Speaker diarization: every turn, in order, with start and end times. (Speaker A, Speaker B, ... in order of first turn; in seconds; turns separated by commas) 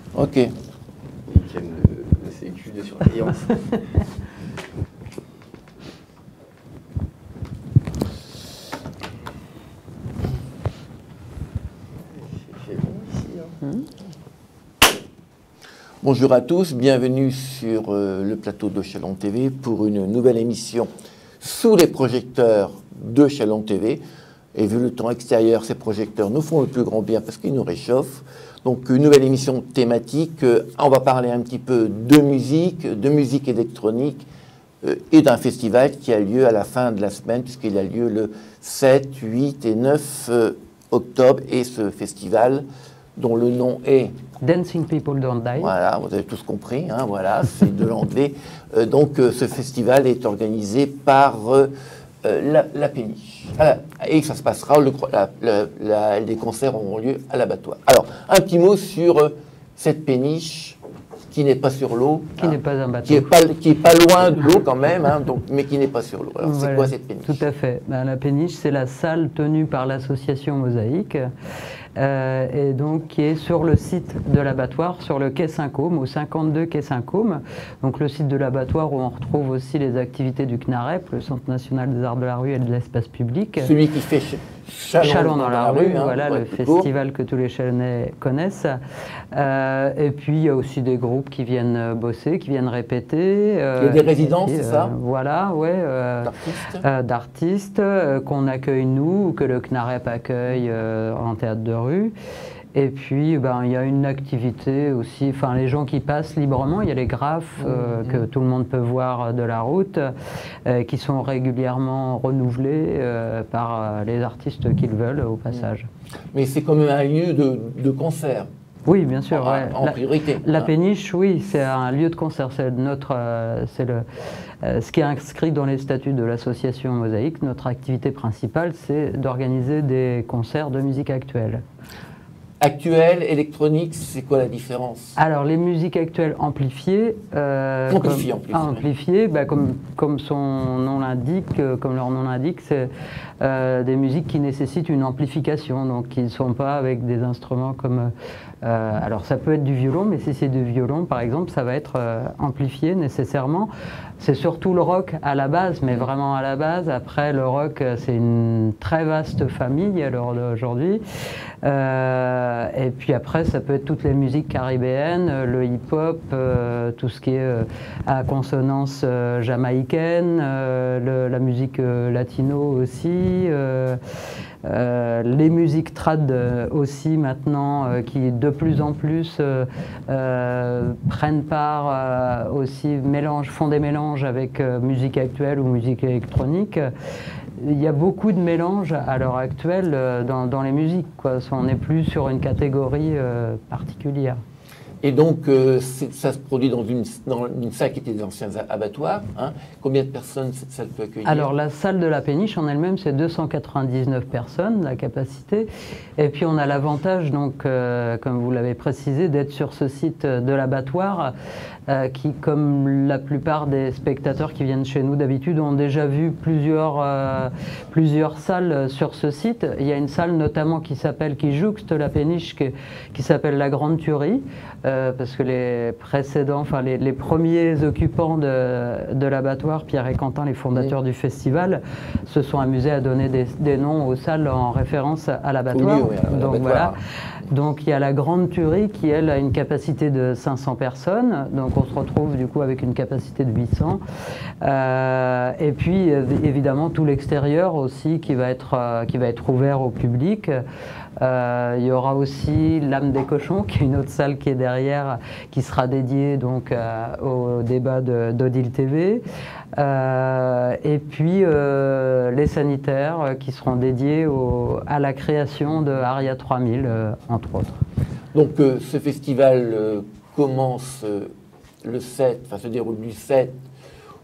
Speaker A: 0.1-0.5, Speaker B: 1.3-3.6, Speaker B: 12.2-13.6, Speaker A: 16.0-24.0, Speaker A: 24.5-34.2, Speaker A: 34.8-42.6, Speaker A: 43.1-44.1, Speaker C: 44.4-45.7, Speaker A: 45.6-51.7, Speaker A: 52.2-67.4, Speaker C: 62.4-63.3, Speaker C: 66.4-71.3, Speaker C: 72.0-83.7, Speaker A: 83.6-86.9, Speaker C: 85.0-88.8, Speaker C: 89.3-102.1, Speaker A: 93.8-94.9, Speaker A: 96.2-96.8, Speaker C: 102.7-110.1, Speaker A: 107.6-108.2, Speaker C: 110.7-115.9, Speaker A: 116.3-118.5, Speaker C: 118.8-124.0, Speaker A: 119.3-120.7, Speaker C: 124.6-131.6, Speaker A: 132.6-135.2, Speaker C: 135.2-142.9, Speaker A: 137.9-138.8, Speaker C: 143.4-161.0, Speaker C: 161.6-174.0, Speaker C: 174.6-186.9, Speaker C: 187.6-194.4, Speaker A: 195.0-201.5, Speaker C: 201.2-211.3, Speaker C: 211.9-236.9, Speaker A: 235.7-237.5, Speaker C: 237.5-244.0, Speaker C: 244.6-250.6, Speaker C: 251.2-259.2, Speaker C: 259.8-267.8, Speaker A: 268.3-273.6